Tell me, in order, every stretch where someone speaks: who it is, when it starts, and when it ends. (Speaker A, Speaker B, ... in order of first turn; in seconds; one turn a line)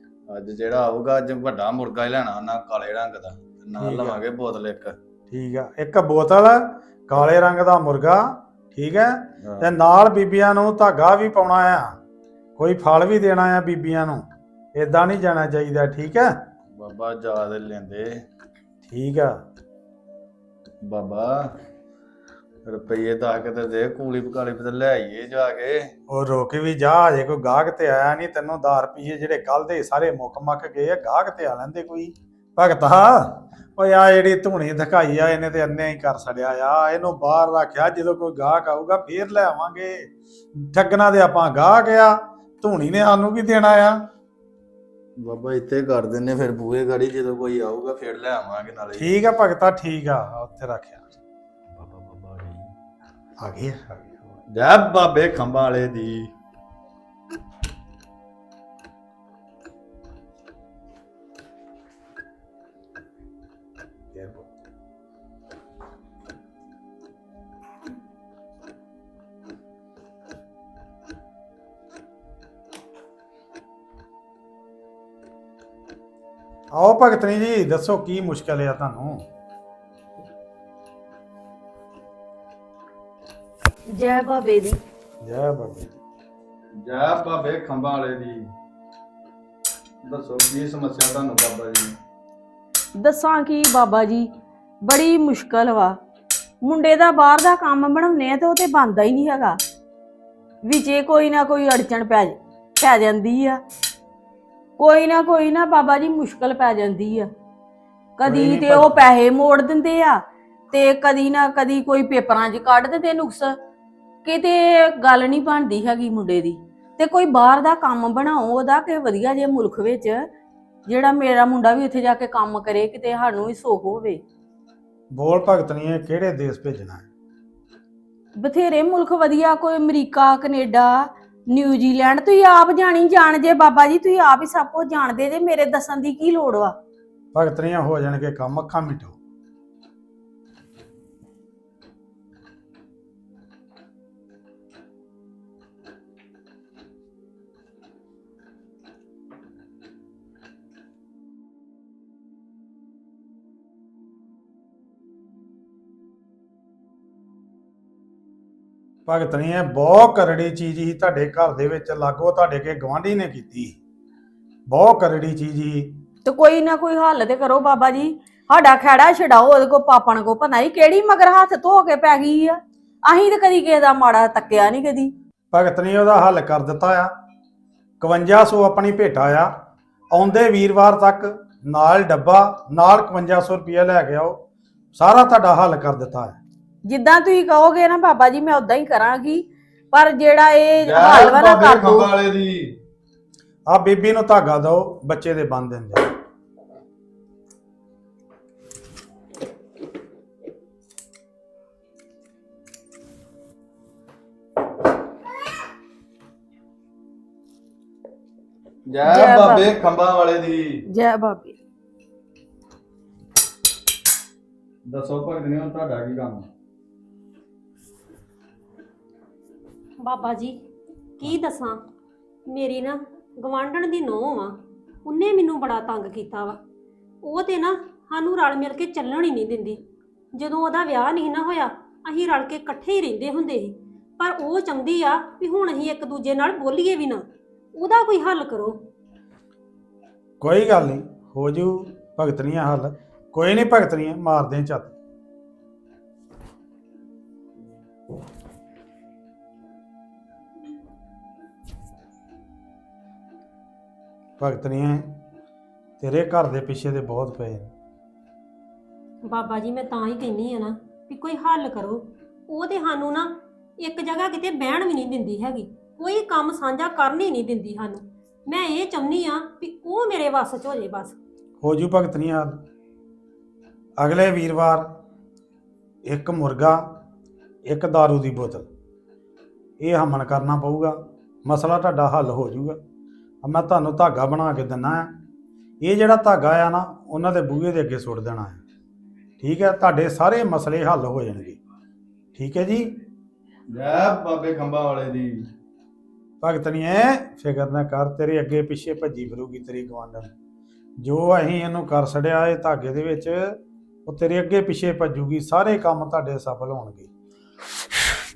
Speaker A: 0.3-5.0
Speaker B: 3.8-4.2
Speaker B: 5.3-11.9
Speaker B: 12.6-14.2
Speaker B: 14.8-16.4
Speaker A: 16.8-18.1
Speaker B: 18.9-19.3
Speaker A: 20.9-21.4
Speaker A: 22.7-25.8
Speaker B: 26.1-40.1
Speaker B: 40.6-44.1
Speaker A: 45.2-49.1
Speaker B: 49.0-51.0
Speaker A: 51.8-52.7
Speaker B: 53.4-54.2
Speaker A: 54.5-56.3
Speaker B: 64.1-64.5
Speaker B: 76.7-79.2
Speaker C: 83.9-84.8
Speaker B: 85.2-86.0
Speaker A: 86.8-88.4
Speaker A: 90.1-91.9
Speaker C: 93.0-94.3
Speaker C: 94.8-96.0
Speaker C: 96.6-99.6
Speaker C: 100.6-103.6
Speaker C: 104.8-107.3
Speaker C: 108.2-113.6
Speaker B: 108.2-109.1
Speaker C: 114.2-120.3
Speaker C: 120.9-124.2
Speaker B: 125.1-127.1
Speaker C: 128.4-136.8
Speaker B: 137.3-139.2
Speaker B: 159.1-163.8
Speaker B: 164.7-166.0
Speaker C: 166.2-175.1
Speaker B: 175.5-177.1
Speaker B: 178.0-179.5
Speaker B: 180.1-184.4
Speaker B: 184.9-186.4
Speaker C: 186.8-192.1
Speaker A: 190.8-192.6
Speaker B: 193.7-196.1
Speaker A: 208.9-210.6
Speaker C: 209.1-209.6
Speaker C: 210.9-211.6
Speaker A: 214.9-216.4
Speaker D: 220.0-220.6
Speaker D: 221.2-221.8
Speaker D: 222.5-226.6
Speaker D: 227.2-229.8
Speaker D: 230.3-238.9
Speaker B: 240.4-244.9
Speaker B: 254.4-255.2
Speaker B: 256.0-257.7
Speaker D: 259.2-271.2
Speaker B: 271.6-272.6
Speaker B: 274.0-274.8
Speaker B: 276.1-276.8
Speaker B: 277.7-278.7
Speaker B: 279.8-282.8
Speaker B: 283.4-285.1
Speaker B: 285.8-288.6
Speaker B: 289.4-291.6
Speaker B: 292.4-292.9
Speaker A: 293.7-295.3
Speaker B: 296.4-300.3
Speaker B: 301.0-303.4
Speaker B: 304.1-307.1